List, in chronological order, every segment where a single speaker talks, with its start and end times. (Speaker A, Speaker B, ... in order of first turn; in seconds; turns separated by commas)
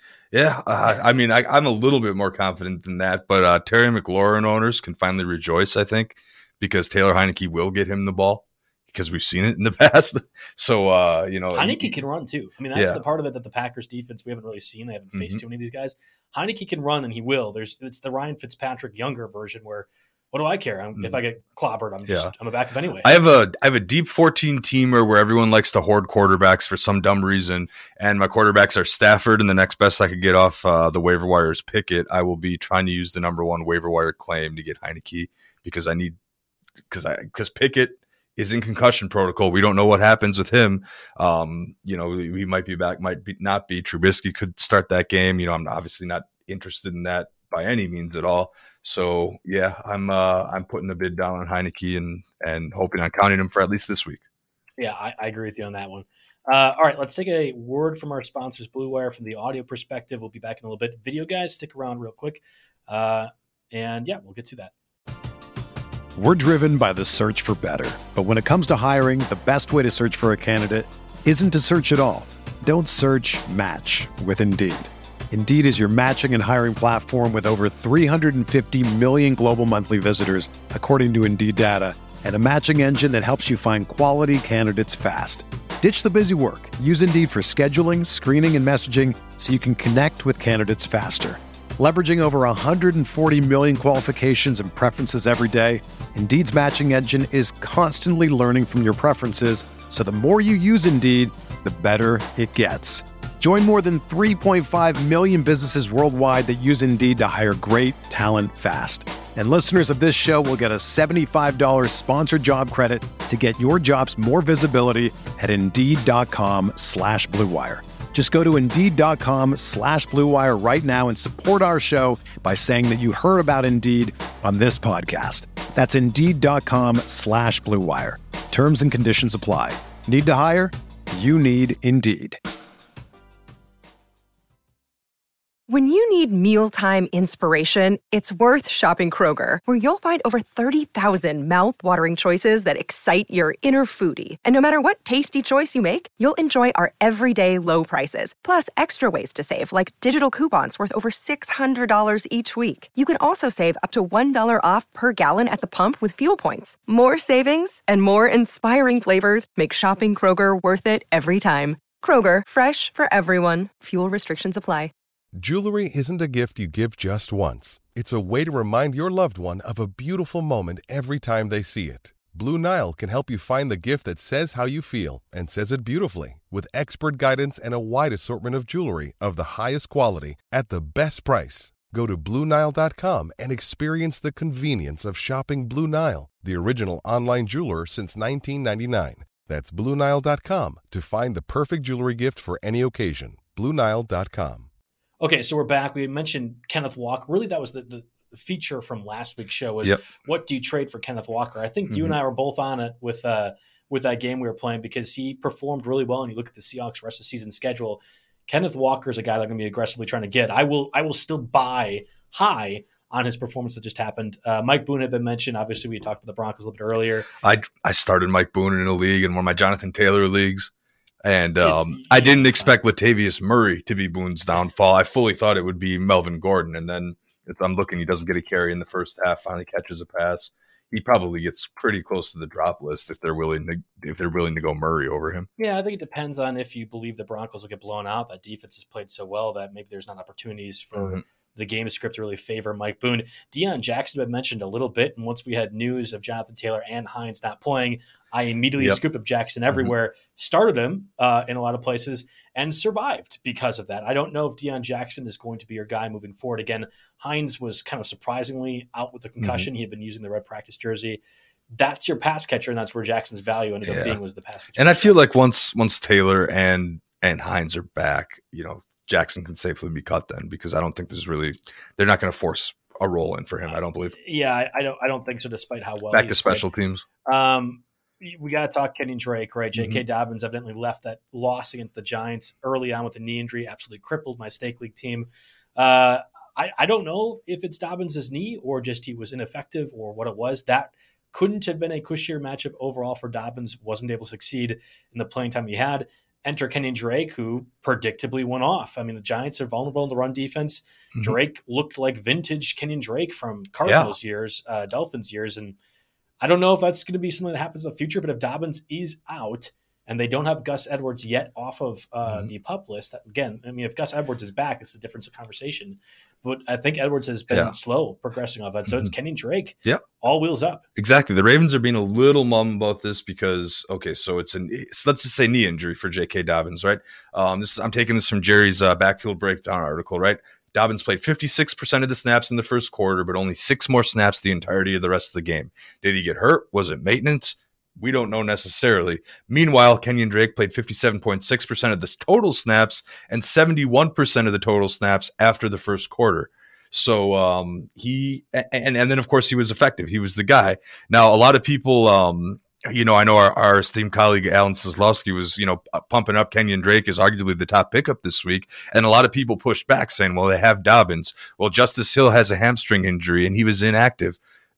Speaker A: 0.3-11.9, Speaker B: 11.5-23.2, Speaker A: 12.7-13.0, Speaker A: 15.1-15.4, Speaker A: 22.1-22.3, Speaker A: 23.0-36.2, Speaker A: 36.9-54.2, Speaker B: 54.8-64.7, Speaker C: 66.2-132.4, Speaker D: 135.7-164.9, Speaker E: 165.4-194.7, Speaker B: 195.2-217.3, Speaker A: 201.9-202.2, Speaker A: 217.4-220.7, Speaker A: 221.2-235.5, Speaker B: 221.6-222.8, Speaker B: 235.6-261.2, Speaker A: 240.9-241.2, Speaker A: 259.4-259.7, Speaker B: 261.7-265.2, Speaker A: 263.9-264.2, Speaker A: 264.8-274.2, Speaker B: 274.2-276.7, Speaker A: 276.1-277.1, Speaker B: 277.2-305.8, Speaker A: 279.8-280.0, Speaker A: 303.9-304.1, Speaker B: 306.4-320.8, Speaker A: 321.0-364.4